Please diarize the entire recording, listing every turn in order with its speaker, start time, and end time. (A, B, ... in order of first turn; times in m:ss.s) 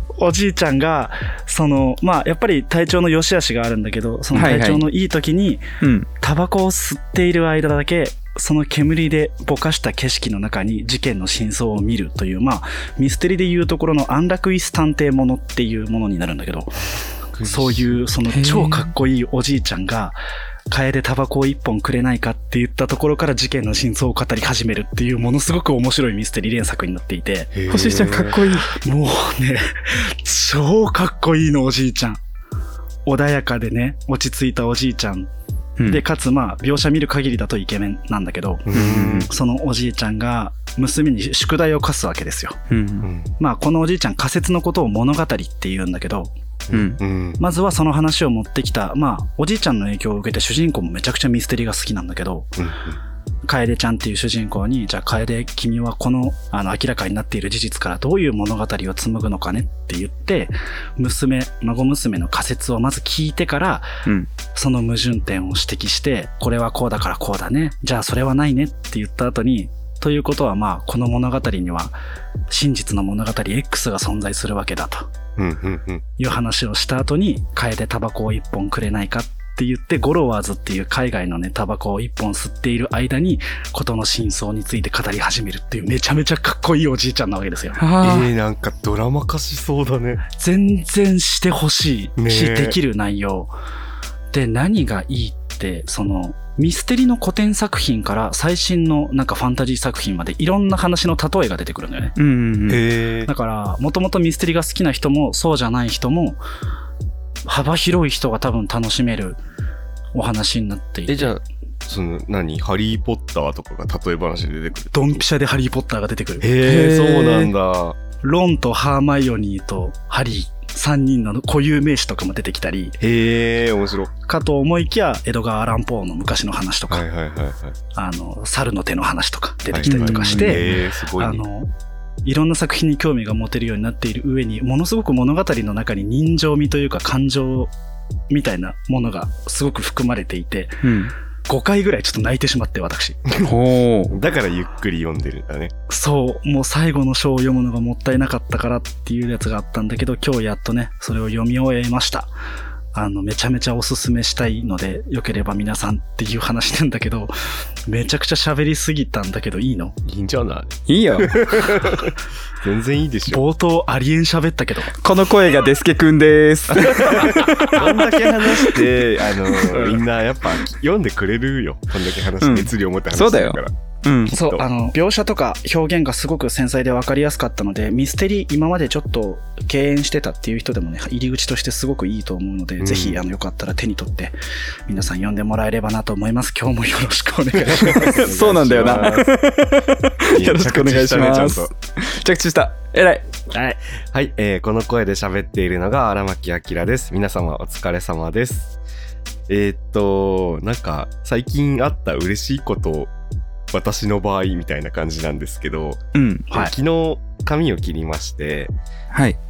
0:00.2-0:05.6 A
0:04.3-0:04.8 B
0:05.8-0:06.1 B
0:06.2-0:16.8 A
0:17.3-0:18.0 C
0:17.4-0:20.2 A
0:18.3-0:18.9 B
0:20.7-0:27.5 A
0:27.5-0:28.4 C
0:27.7-0:28.7 B
0:28.7-0:32.2 A
0:33.1-0:35.3 A
0:35.9-0:42.6 A
0:38.7-0:39.2 C
0:38.7-0:39.3 B
0:42.7-0:43.1 B
0:43.0-0:43.3 C
0:43.4-0:46.3 A
0:46.7-0:47.4 C
0:46.7-0:47.0 B
0:47.4-0:52.5 A
0:52.6-0:53.0 C
0:53.5-1:03.9 A
1:04.0-1:04.3 B
1:04.5-1:12.0 A
1:12.5-1:15.1 A
1:15.4-1:16.0 C
1:16.2-1:27.8 A
1:27.8-1:28.3 B
1:28.0-1:30.2 C
1:30.3-1:33.5 A
1:32.2-1:32.8 C
1:34.3-1:42.2 A
1:42.2-1:42.8 B
1:42.7-1:43.3 C
1:43.3-1:46.4 A
1:47.5-1:49.4 A
1:50.1-1:51.3 A
1:51.1-1:55.2 C
1:54.9-1:57.5 A
1:56.4-1:58.0 C
1:56.7-1:57.0 B
1:58.2-2:03.0 A
2:03.0-2:04.1 C
2:04.3-2:07.0 A
2:06.9-2:07.8 C
2:08.0-2:11.7 A
2:09.7-2:11.4 C
2:09.8-2:10.7 B
2:12.2-2:17.7 A
2:18.3-2:20.9 A
2:20.8-2:21.1 B
2:21.5-2:23.2 A
2:23.3-2:23.6 C
2:23.4-2:24.2 B
2:24.1-2:25.7 C
2:25.9-2:32.3 A
2:32.9-2:37.3 A
2:37.9-2:40.0 A
2:40.0-2:43.4 C
2:40.9-2:41.5 B
2:43.3-2:44.9 A
2:45.0-2:48.0 B
2:46.8-2:53.7 C
2:52.4-2:54.3 B
2:54.3-2:54.6 C
2:54.3-3:04.4 A
3:02.8-3:03.2 C
3:04.9-3:08.2 A
3:07.6-3:09.4 C
3:08.0-3:13.3 B
3:10.3-3:11.7 C
3:13.5-3:13.8 A
3:14.1-3:18.7 C
3:19.5-3:23.1 C
3:23.7-3:28.7 C
3:26.2-3:26.5 B
3:29.1-3:29.4 B